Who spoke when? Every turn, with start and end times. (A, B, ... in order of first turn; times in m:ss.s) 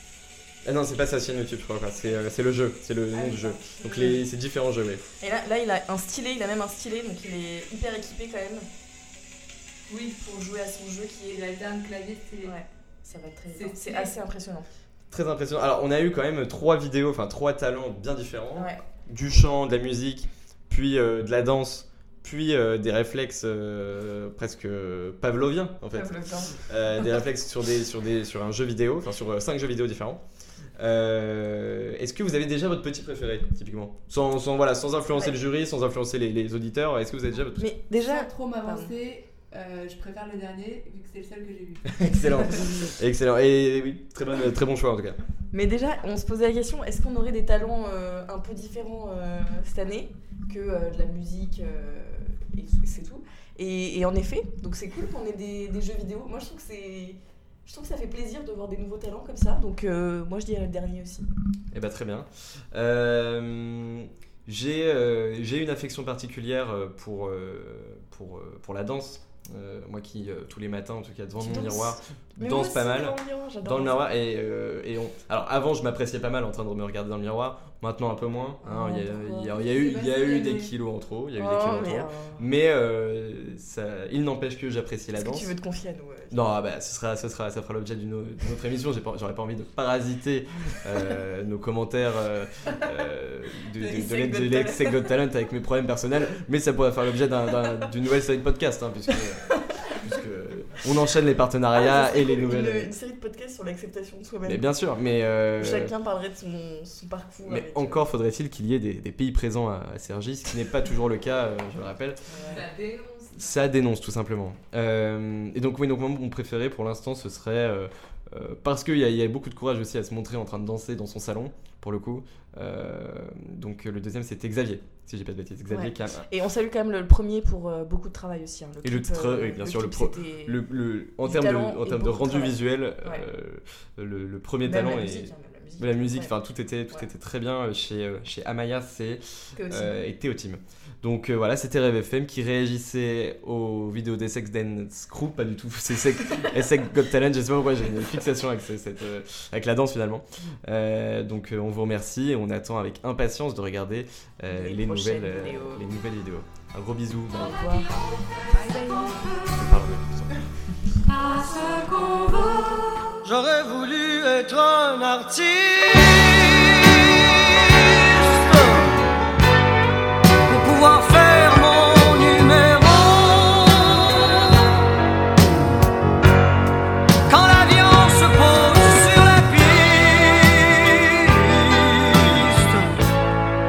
0:00.6-0:05.0 A
0:03.1-0:04.0 B
0:03.8-0:04.1 C
0:05.2-0:08.7 C
0:09.9-0:10.2 B
0:10.2-0:11.4 C
0:11.2-0:12.6 B
0:12.4-0:14.7 C
0:13.5-0:14.1 B
0:15.1-0:30.2 A
0:18.6-0:18.8 C
0:25.9-0:27.1 C
0:30.8-0:37.7 A
0:35.1-0:35.4 C
0:37.6-0:38.9 C
0:37.9-0:42.7 B
0:41.9-0:45.2 A
0:45.5-1:01.3 C
1:01.7-1:25.5 A
1:11.4-1:14.0 C
1:18.6-1:19.6 C
1:19.5-1:20.7 B
1:21.4-1:22.4 C
1:25.1-1:26.5 C
1:26.3-1:42.9 A
1:33.8-1:35.1 C
1:39.5-1:39.8 C
1:41.7-1:44.7 C
1:44.4-1:45.9 A
1:45.6-1:48.1 C
1:47.4-1:52.2 A
1:52.3-1:52.6 C
1:52.4-1:53.6 B
1:53.4-2:06.3 A
2:05.7-2:10.6 C
2:08.8-2:37.6 A
2:11.2-2:13.3 C
2:14.6-2:16.4 C
2:19.6-2:20.0 C
2:34.5-2:35.9 C
2:37.4-2:38.0 C
2:38.5-2:39.5 B
2:39.4-2:40.5 A
2:41.3-2:49.2 D
2:50.4-2:54.8 D
2:57.3-3:03.0 D